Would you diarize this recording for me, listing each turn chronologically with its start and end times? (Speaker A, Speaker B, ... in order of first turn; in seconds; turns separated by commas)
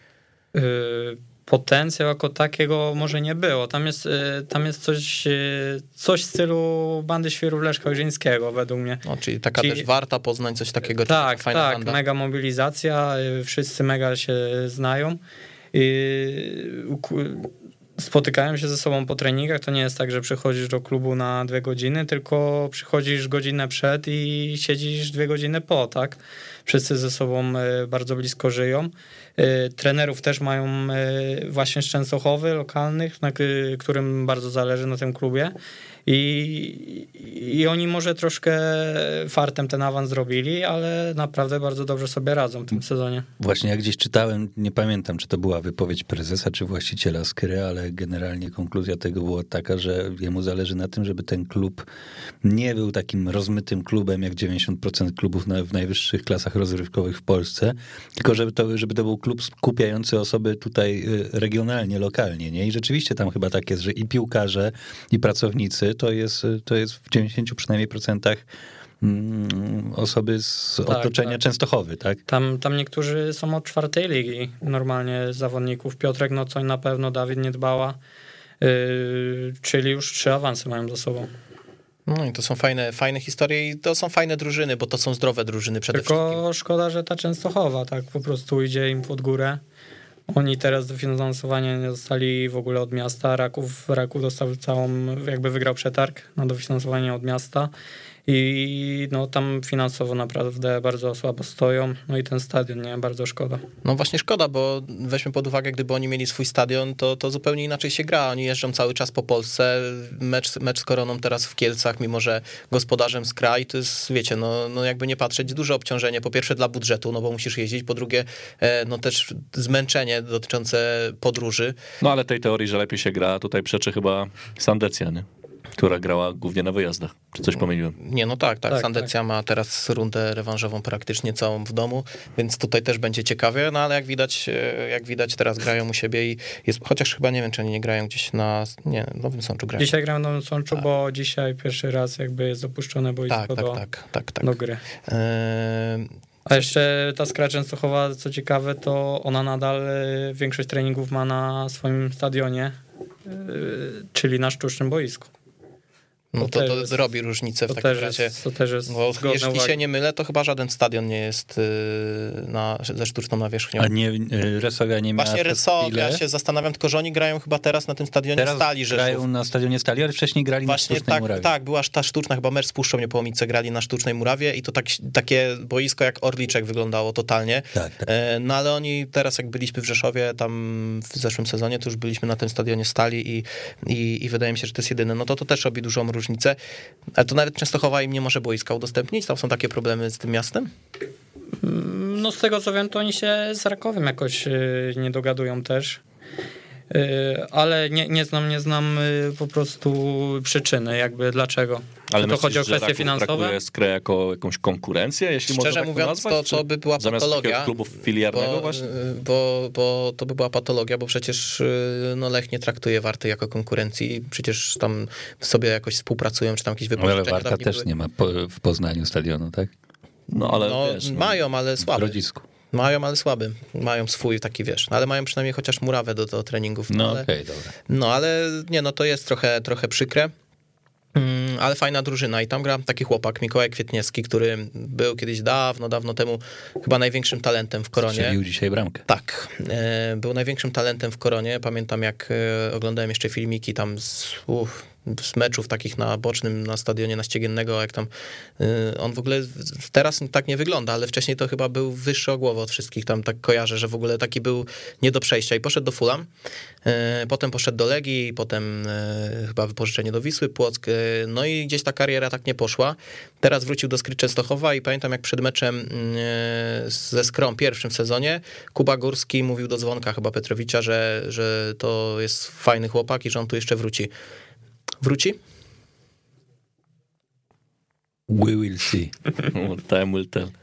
Speaker A: 0.5-9.0, Speaker B: 9.1-12.0, Speaker A: 9.6-9.9, Speaker A: 11.1-15.2, Speaker A: 15.7-35.5, Speaker A: 36.1-43.3, Speaker C: 43.4-51.9, Speaker C: 52.4-68.5, Speaker C: 69.0-72.2, Speaker A: 70.9-71.4, Speaker A: 72.3-78.0, Speaker A: 78.6-81.3, Speaker B: 82.1-86.4, Speaker A: 85.9-89.6, Speaker A: 90.3-97.7, Speaker A: 98.3-103.6, Speaker B: 103.8-121.8, Speaker D: 122.0-125.3, Speaker D: 125.8-128.0, Speaker B: 128.0-139.9, Speaker A: 128.7-129.1, Speaker A: 139.8-143.8, Speaker B: 143.3-146.1, Speaker A: 144.4-144.8, Speaker A: 146.5-155.3, Speaker B: 156.3-158.3, Speaker A: 156.4-157.0, Speaker A: 157.7-159.8, Speaker B: 158.9-163.9, Speaker C: 163.8-166.2, Speaker B: 165.2-169.2, Speaker C: 168.4-171.5, Speaker B: 170.7-186.6, Speaker C: 177.7-178.1, Speaker B: 187.2-190.7, Speaker A: 191.6-196.0, Speaker A: 196.9-203.6, Speaker D: 202.1-208.9, Speaker B: 205.5-207.7, Speaker B: 208.3-217.8, Speaker C: 217.0-219.7, Speaker D: 220.3-221.4, Speaker B: 220.5-222.2, Speaker C: 221.8-222.4, Speaker B: 222.7-227.3, Speaker C: 226.9-227.7, Speaker B: 227.9-230.3, Speaker B: 231.2-238.4, Speaker C: 238.0-239.0, Speaker B: 239.1-256.3, Speaker B: 256.9-274.1, Speaker B: 275.0-275.4, Speaker C: 278.3-279.1, Speaker D: 279.5-280.5